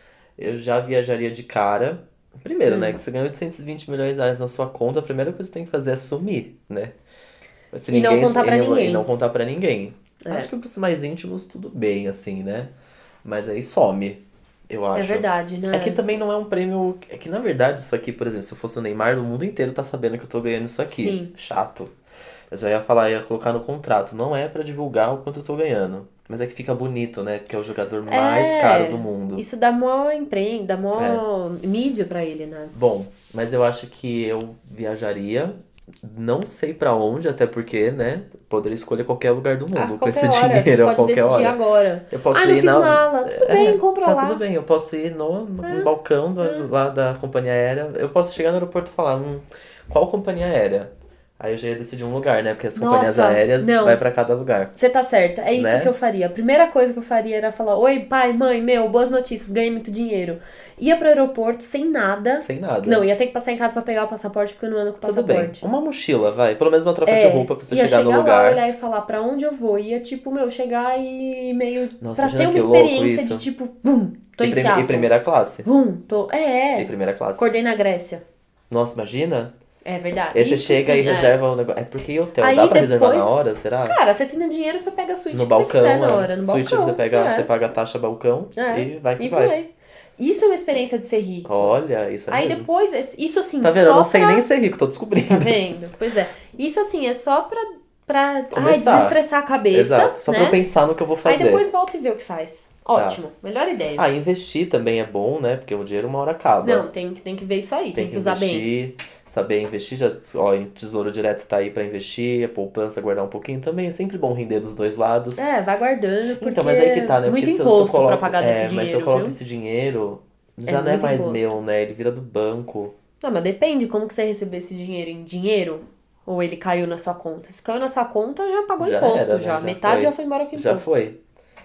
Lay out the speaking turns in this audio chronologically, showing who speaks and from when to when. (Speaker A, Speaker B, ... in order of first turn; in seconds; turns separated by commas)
Speaker A: 0.4-6.9, Speaker B: 2.6-3.0, Speaker A: 7.7-12.7, Speaker B: 7.9-9.1, Speaker B: 10.2-10.5, Speaker A: 13.2-21.9, Speaker B: 14.9-16.0, Speaker B: 20.9-21.3, Speaker A: 22.5-29.4, Speaker B: 28.1-32.7, Speaker A: 30.9-31.2, Speaker A: 32.7-41.6, Speaker B: 39.7-44.4, Speaker A: 42.1-54.7, Speaker B: 45.6-45.9, Speaker B: 46.4-46.7, Speaker B: 52.7-54.0, Speaker B: 54.7-65.7, Speaker A: 55.5-55.9, Speaker A: 62.4-63.0, Speaker A: 65.0-68.6, Speaker B: 67.0-75.1, Speaker A: 72.0-73.5, Speaker A: 74.4-75.7, Speaker B: 75.6-78.2, Speaker A: 76.8-77.5, Speaker A: 78.7-79.5, Speaker B: 79.8-81.4, Speaker A: 80.3-84.0, Speaker B: 82.4-87.5, Speaker A: 85.3-89.5, Speaker B: 88.5-91.7, Speaker A: 91.4-92.7, Speaker B: 92.3-94.4, Speaker A: 93.6-95.7, Speaker B: 95.3-100.6, Speaker A: 98.5-99.2, Speaker A: 99.7-101.7, Speaker B: 101.2-104.0, Speaker A: 102.9-103.2, Speaker A: 104.0-106.9, Speaker B: 106.6-108.7, Speaker A: 107.9-115.5, Speaker B: 115.3-119.4, Speaker A: 116.4-122.9, Speaker B: 120.7-121.5, Speaker B: 123.2-130.9, Speaker A: 128.8-131.2